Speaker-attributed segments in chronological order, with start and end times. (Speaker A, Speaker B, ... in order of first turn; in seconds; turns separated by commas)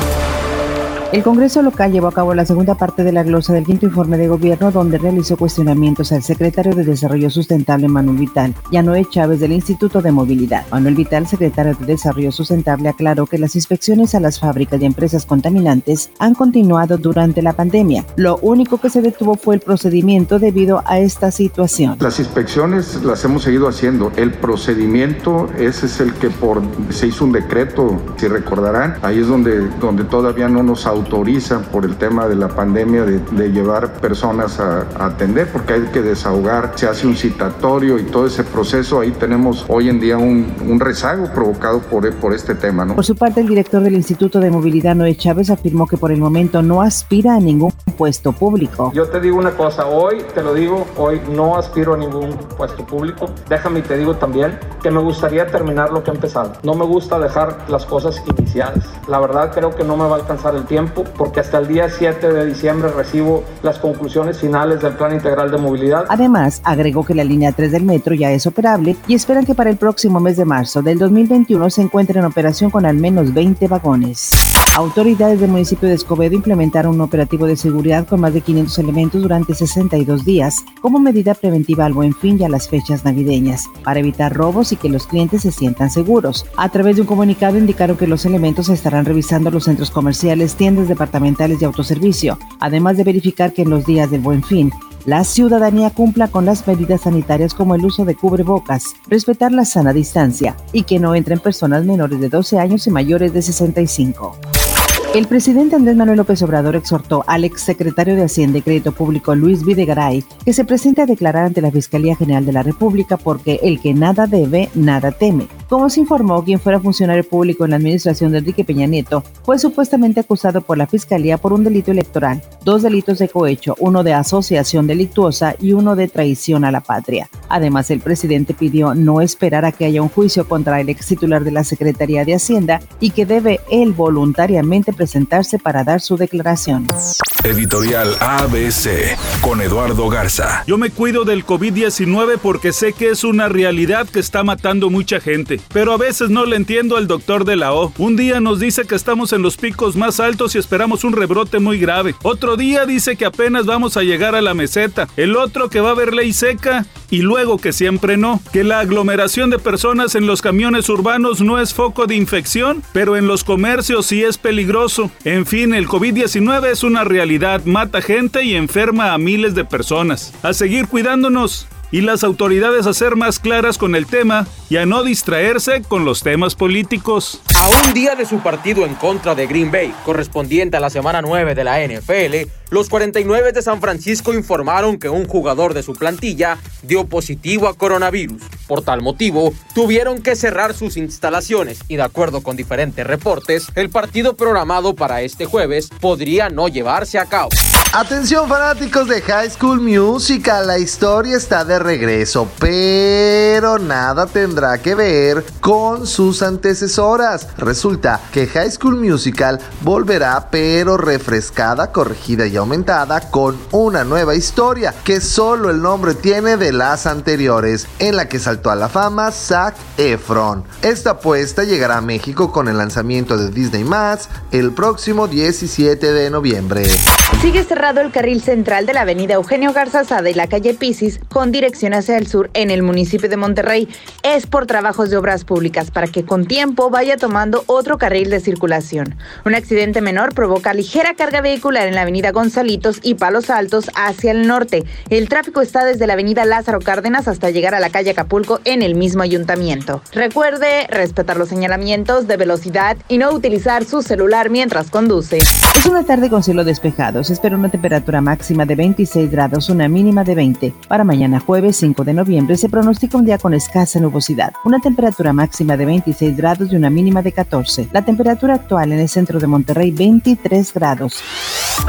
Speaker A: 1.1-22.0, Speaker B: 22.0-43.0, Speaker A: 43.0-49.0, Speaker C: 49.0-66.0, Speaker A: 66.1-104.4, Speaker A: 105.1-136.9, Speaker D: 137.4-140.6, Speaker E: 140.7-177.4, Speaker F: 177.5-197.5, Speaker G: 197.9-227.0, Speaker H: 227.3-255.6, Speaker A: 255.7-271.2